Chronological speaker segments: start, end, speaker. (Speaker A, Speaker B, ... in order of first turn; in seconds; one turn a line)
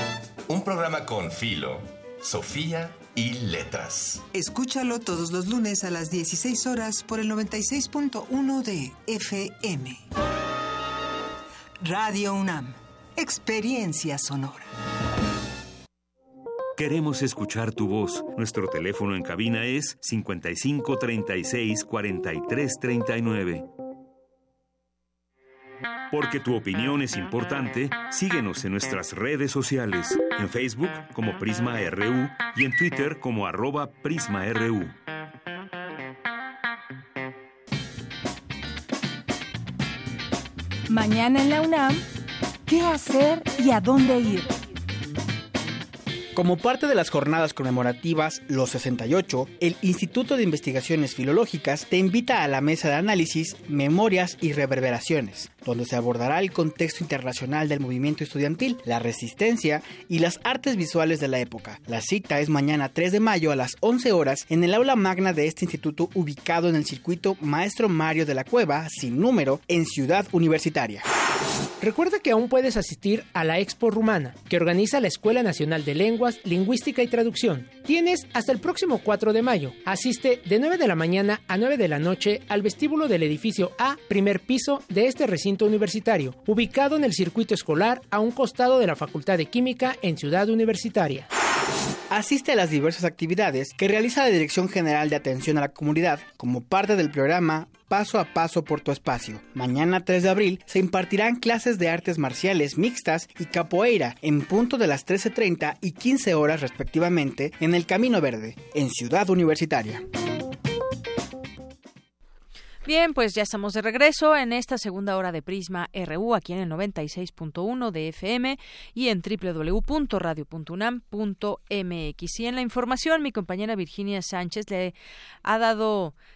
Speaker A: 0.5-4.2
Speaker B: 4.3-10.0
Speaker B: 11.8-14.6
Speaker C: 16.8-23.6
Speaker C: 26.1-34.9
Speaker D: 40.9-42.0
Speaker D: 42.7-44.5
Speaker E: 46.3-71.0
Speaker F: 71.8-91.3
Speaker E: 92.1-110.0
Speaker G: 112.8-126.1